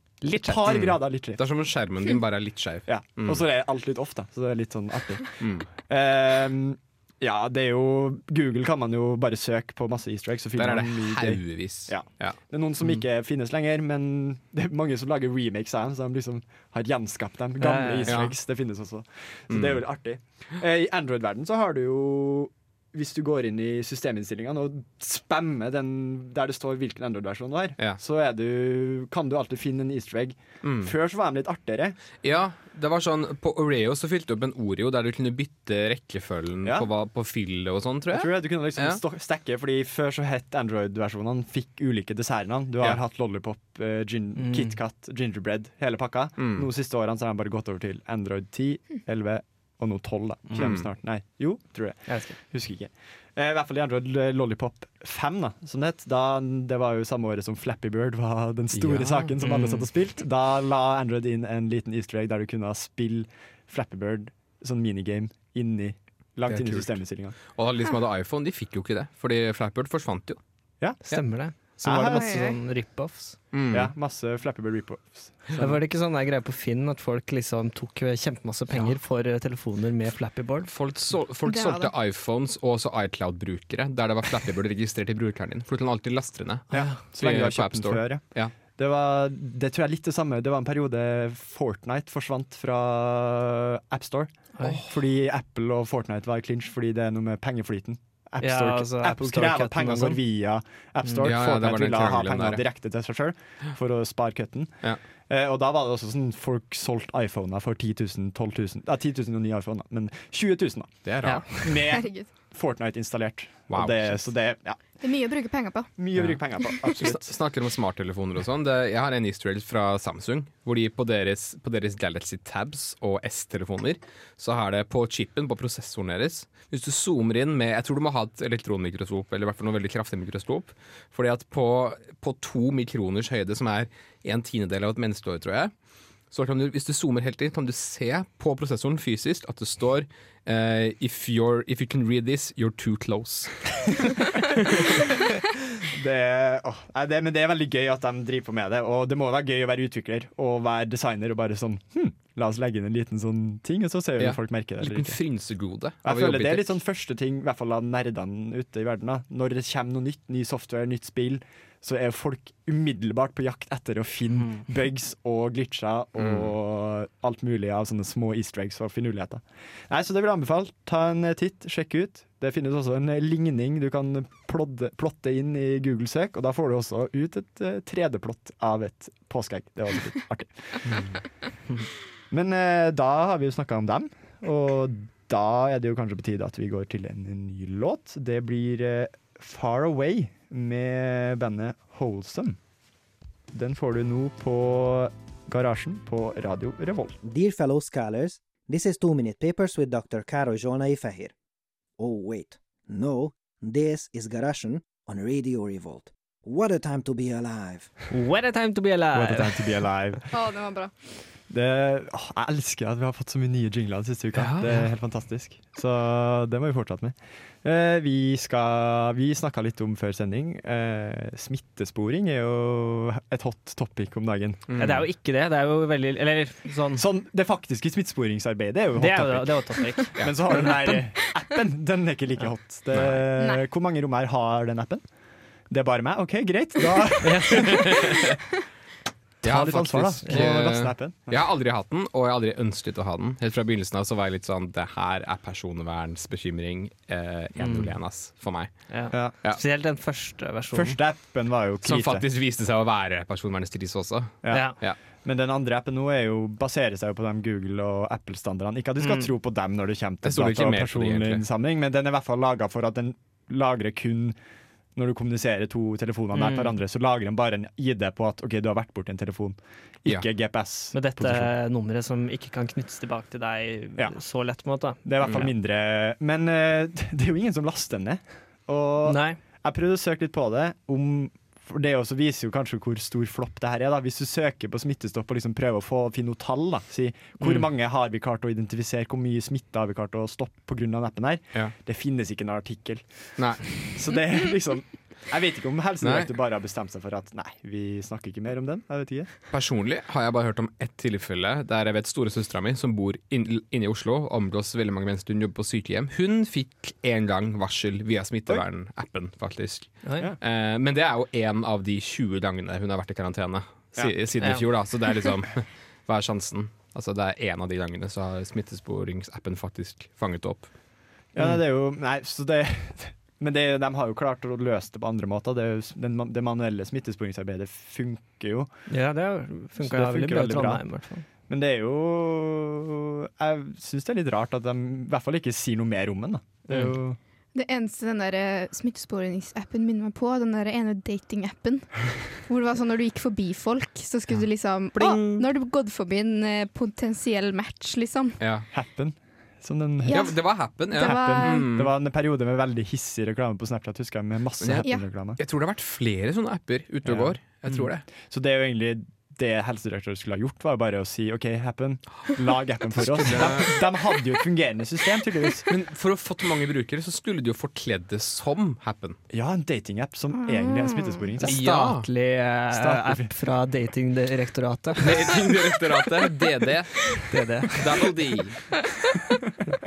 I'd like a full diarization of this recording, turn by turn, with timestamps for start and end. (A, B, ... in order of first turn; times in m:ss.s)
0:00.2-0:01.4 A
0:00.4-0:03.4 B
0:02.9-0:32.0 A
0:05.4-0:05.7 B
0:10.6-0:13.0 B
0:17.6-0:18.2 C
0:18.1-0:18.4 B
0:19.5-0:20.2 B
0:30.6-0:30.9 B
0:32.2-0:39.0 B
0:38.1-1:07.4 A
0:44.4-0:44.8 C
0:46.4-0:46.7 B
0:50.6-0:50.9 B
0:52.1-0:52.4 C
0:58.7-0:59.8 B
0:59.5-0:59.8 C
1:06.5-1:10.4 B
1:10.8-1:12.6 A
1:11.1-1:13.4 C
1:12.1-1:12.6 D
1:13.5-1:13.9 B
1:13.7-1:15.8 A
1:15.6-1:20.7 C
1:20.7-1:28.5 B
1:21.4-1:21.9 D
1:26.7-1:27.0 C
1:26.7-1:54.8 A
1:34.6-1:34.8 C
1:38.4-1:40.2 C
1:41.0-1:41.3 C
1:41.2-1:42.6 B
1:51.0-1:51.8 B
1:51.2-1:51.8 C
1:51.9-1:52.3 D
1:53.7-1:54.2 B
1:55.0-1:55.9 D
1:56.0-1:57.4 A
1:56.5-1:56.9 D
1:56.9-2:15.7 B
2:16.3-2:25.0 B
2:25.9-2:35.2 A
2:34.2-2:36.8 B
2:36.0-3:00.9 A
2:44.4-2:44.6 C
2:46.2-2:46.5 B
3:00.9-3:01.2 B
3:02.3-3:12.6 A
3:13.5-3:17.2 A
3:17.2-3:21.3 E
3:22.0-3:27.9 E
3:28.1-3:29.8 C
3:29.1-3:30.2 A
3:30.3-3:31.0 D
3:31.5-3:44.6 A
3:34.4-3:34.8 B
3:44.7-3:45.1 B
3:44.8-3:47.0 C
3:47.0-3:55.1 A
3:49.0-3:51.1 C
3:52.9-3:53.3 B
3:53.4-3:53.6 D
3:55.7-3:58.0 A
3:57.2-3:57.8 C
3:59.4-4:01.4 A
3:59.4-4:09.6 B
4:07.6-4:08.2 C
4:08.9-4:11.0 C
4:10.7-4:12.3 A
4:11.8-4:15.0 B
4:14.4-4:24.4 A
4:14.5-4:14.8 C
4:19.0-4:19.3 C
4:20.2-4:21.4 B
4:25.0-4:31.6 A
4:26.3-4:26.7 C
4:30.9-4:35.4 C
4:34.0-4:34.2 A
4:34.8-4:59.3 A
4:35.2-4:35.5 B
4:39.0-4:39.4 C
4:47.4-4:47.7 C
4:53.4-4:53.9 B
4:56.0-4:56.3 B
4:59.5-5:20.8 B
5:14.0-5:14.8 A
5:14.4-5:14.7 C
5:21.3-5:28.9 A
5:28.9-5:31.3 C
5:29.8-5:37.2 A
5:36.7-5:37.0 C
5:37.5-5:48.4 D
5:45.0-5:45.4 B
5:48.4-5:48.7 B
5:48.7-5:55.4 A
5:50.0-5:51.7 D
5:50.1-5:51.9 B
5:54.6-5:58.1 B
5:57.0-6:05.7 A
6:03.0-6:03.8 B
6:05.7-6:09.2 B
6:09.3-6:11.6 A
6:10.3-6:11.3 D
6:11.4-6:15.1 C
6:11.5-6:12.1 B
6:12.7-6:13.4 A
6:15.0-6:17.2 B
6:17.3-6:17.8 C
6:17.7-6:18.6 B